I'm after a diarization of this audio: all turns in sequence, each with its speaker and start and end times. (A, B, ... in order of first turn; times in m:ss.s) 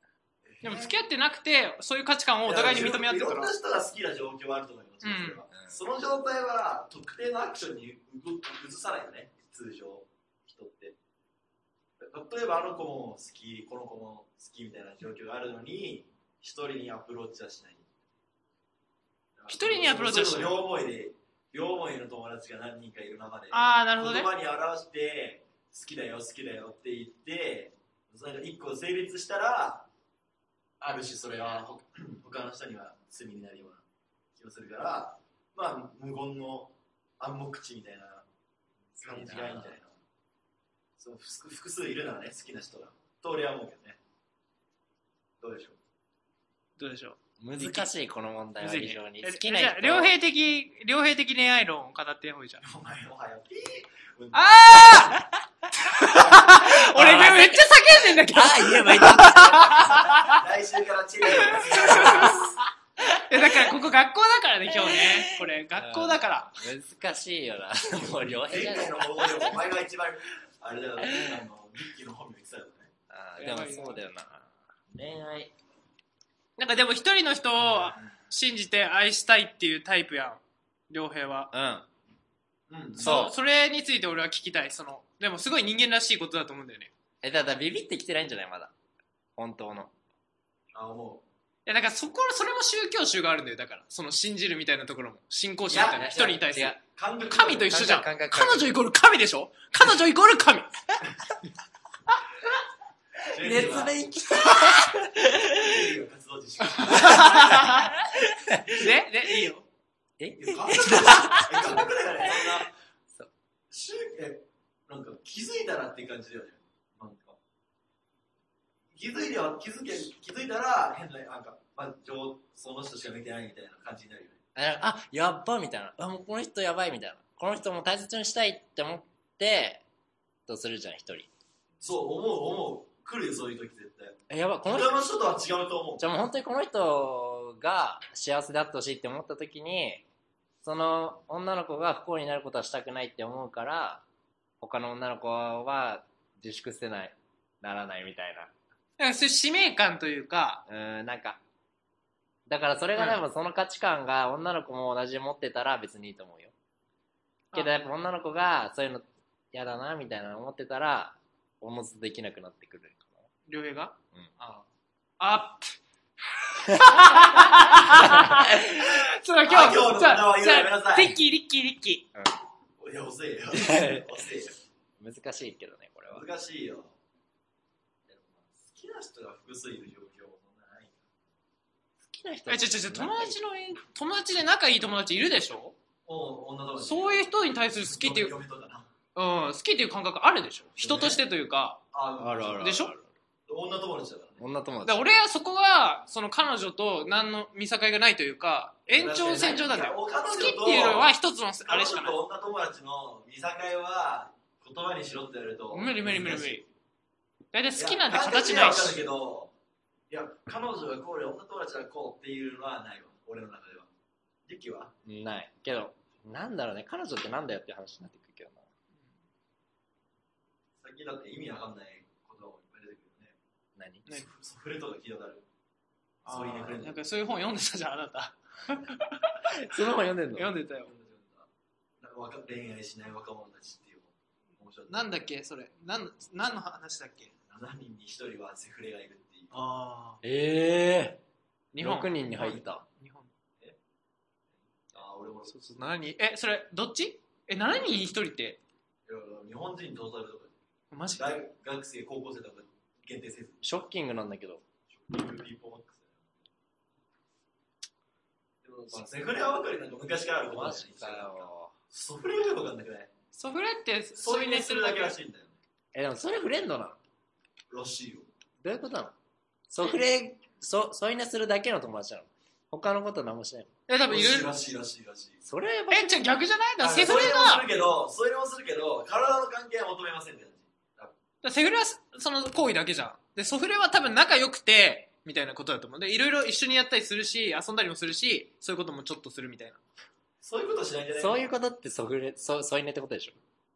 0:00.4-0:01.0 A
0:00.6-0:03.5 B
0:02.4-0:11.0 A
0:05.0-0:05.4 B
0:12.0-0:17.9 A
0:19.4-0:29.9 A
0:19.5-0:20.6 B
0:23.5-0:24.3 B
0:30.8-0:33.8 A
0:34.4-0:38.3 A
0:39.0-0:40.0 A
0:39.0-0:39.8 C
0:41.0-0:44.0 A
0:45.4-0:45.8 A
0:46.8-0:47.9 B
0:47.4-0:50.1 C
0:48.6-0:52.7 B
0:52.6-0:55.2 A
0:54.3-1:00.4 B
0:56.6-1:00.4 C
0:59.1-1:02.5 A
1:01.3-1:06.5 B
1:03.4-1:03.7 C
1:04.8-1:09.6 C
1:08.0-1:12.9 A
1:11.0-1:11.4 C
1:13.1-1:15.5 C
1:13.4-1:14.0 B
1:16.6-1:21.5 B
1:21.5-1:21.9 C
1:22.7-1:23.3 A
1:23.0-1:26.9 B
1:23.1-1:23.3 C
1:27.2-1:28.7 C
1:29.4-1:29.9 C
1:30.7-1:31.2 A
1:31.7-1:40.7 B
1:35.7-1:37.8 A
1:36.2-1:36.8 C
1:37.5-1:38.7 C
1:43.3-1:44.0 A
1:43.3-1:45.9 C
1:44.5-1:44.8 B
1:45.4-1:47.6 A
1:46.8-1:48.0 B
1:47.2-1:48.8 C
1:48.7-1:49.7 B
1:50.2-1:53.3 C
1:50.4-1:52.7 A
1:53.7-1:57.4 A
1:58.9-2:04.4 A
2:04.6-2:09.8 C
2:10.5-2:11.3 C
2:11.8-2:16.1 A
2:14.3-2:15.1 C
2:16.0-2:20.0 C
2:20.6-2:24.0 C
2:24.6-2:28.5 C
2:29.0-2:30.6 B
2:30.7-2:31.4 C
2:32.5-2:36.5 C
2:33.0-2:33.2 B
2:37.5-2:43.3 C
2:43.5-2:44.6 B
2:45.2-2:45.8 B
2:46.6-2:52.1 B
2:46.7-2:48.8 C
2:49.5-2:51.2 A
2:52.8-2:54.6 A
2:53.5-2:54.3 C
2:55.0-2:56.2 C
2:56.1-2:57.0 A
2:58.1-3:01.1 A
3:02.1-3:03.4 C
3:02.5-3:05.8 B
3:06.1-3:08.9 A
3:06.8-3:08.3 B
3:09.2-3:11.8 B
3:10.8-3:11.2 A
3:11.9-3:12.7 A
3:12.2-3:13.1 C
3:12.6-3:12.9 B
3:13.5-3:14.4 A
3:14.4-3:15.1 C
3:14.8-3:22.2 B
3:18.9-3:21.1 A
3:21.7-3:26.6 A
3:25.7-3:26.7 B
3:27.5-3:29.0 B
3:27.8-3:29.5 A
3:30.1-3:33.9 A
3:34.5-3:34.9 A
3:35.0-3:38.7 C
3:40.8-3:43.4 A
3:43.8-3:44.0 C
3:44.1-3:45.4 A
3:46.2-3:49.6 B
3:46.3-3:47.0 A
3:48.6-3:49.0 A
3:49.5-3:50.5 C
3:50.4-3:50.9 B
3:50.8-3:51.5 A
3:52.0-3:55.1 A
3:54.9-3:57.3 B
3:57.5-3:59.5 A
3:59.5-4:00.2 B
4:00.2-4:01.2 C
4:01.7-4:03.3 B
4:01.8-4:02.8 C
4:04.9-4:05.8 A
4:05.5-4:08.6 B
4:09.1-4:10.6 A
4:10.9-4:11.4 B
4:11.2-4:13.7 A
4:13.6-4:14.6 C
4:14.9-4:16.4 A
4:18.6-4:23.1 A
4:20.5-4:21.7 C
4:23.3-4:25.2 B
4:24.2-4:25.6 A
4:25.9-4:27.0 C
4:27.7-4:28.3 A
4:28.6-4:29.2 C
4:29.7-4:33.7 C
4:33.9-4:34.5 B
4:34.1-4:35.4 A
4:35.4-4:36.3 C
4:35.9-4:37.7 B
4:36.8-4:41.1 A
4:41.4-4:49.8 B
4:50.4-4:51.5 A
4:51.2-4:53.4 C